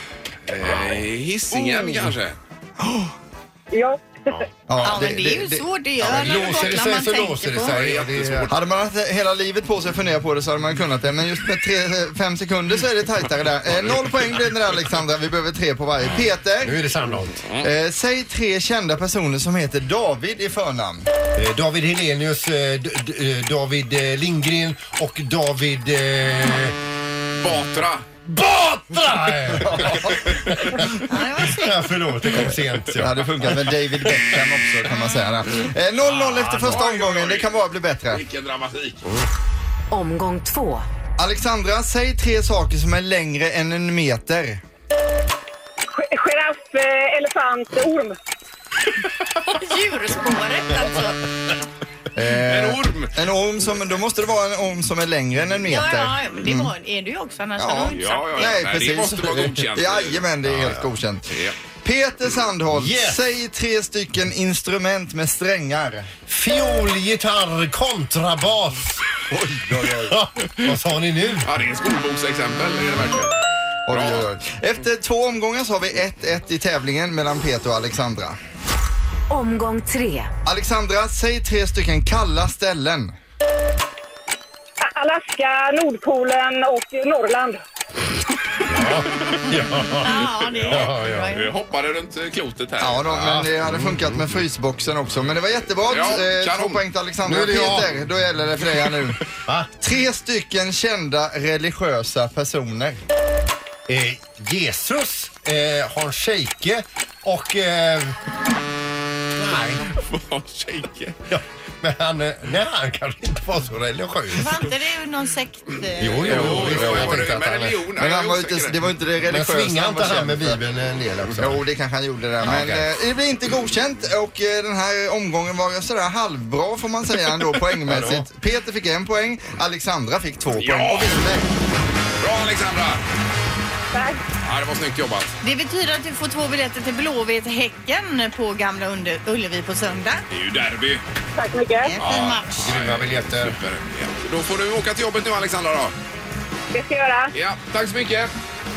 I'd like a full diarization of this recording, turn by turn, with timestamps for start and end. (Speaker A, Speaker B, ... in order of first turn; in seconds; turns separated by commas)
Speaker A: 0.5-2.4, Speaker B: 3.7-4.4, Speaker C: 4.7-5.6, Speaker D: 4.8-7.8, Speaker E: 6.0-8.5, Speaker A: 7.6-8.7, Speaker C: 8.5-16.8, Speaker E: 16.6-17.4, Speaker C: 17.6-21.1, Speaker E: 21.3-26.8, Speaker A: 27.4-28.0, Speaker E: 28.2-33.7, Speaker C: 29.7-30.0, Speaker D: 31.1-31.9, Speaker C: 33.0-38.2, Speaker E: 36.1-36.8, Speaker A: 36.5-37.5, Speaker A: 38.1-39.0, Speaker F: 39.9-40.8, Speaker C: 41.2-44.6, Speaker B: 45.9-48.1, Speaker D: 49.4-51.2, Speaker C: 52.1-56.7, Speaker A: 52.4-53.1, Speaker D: 55.7-58.6, Speaker C: 57.6-61.3, Speaker A: 57.9-60.8, Speaker A: 61.3-61.5, Speaker C: 61.8-66.1, Speaker E: 62.7-63.2, Speaker E: 66.3-69.0, Speaker E: 69.8-71.5, Speaker A: 71.4-73.3, Speaker C: 73.9-78.4, Speaker A: 73.9-74.3, Speaker F: 79.3-80.3, Speaker C: 80.5-83.1, Speaker B: 84.8-87.6, Speaker E: 88.7-91.3, Speaker D: 90.0-91.5, Speaker A: 90.5-93.4, Speaker C: 92.8-99.2, Speaker E: 93.2-94.3, Speaker A: 95.9-96.8, Speaker E: 97.2-98.0, Speaker E: 99.5-99.7, Speaker C: 99.8-103.0, Speaker E: 103.9-108.2, Speaker E: 109.3-109.9, Speaker A: 110.0-111.2, Speaker E: 111.3-114.6, Speaker D: 114.3-116.8, Speaker E: 116.0-117.8, Speaker A: 116.2-118.8, Speaker C: 118.0-120.6, Speaker E: 119.3-121.6, Speaker C: 121.3-131.4, Speaker E: 122.4-122.9, Speaker E: 127.8-128.3, Speaker A: 130.5-131.2, Speaker A: 132.2-133.0, Speaker B: 133.9-134.2, Speaker A: 134.4-135.4, Speaker D: 135.4-140.2, Speaker A: 140.3-141.0, Speaker B: 141.3-141.9, Speaker D: 141.8-142.7, Speaker A: 142.0-145.9, Speaker E: 142.6-143.6, Speaker B: 146.7-147.3, Speaker A: 147.3-148.3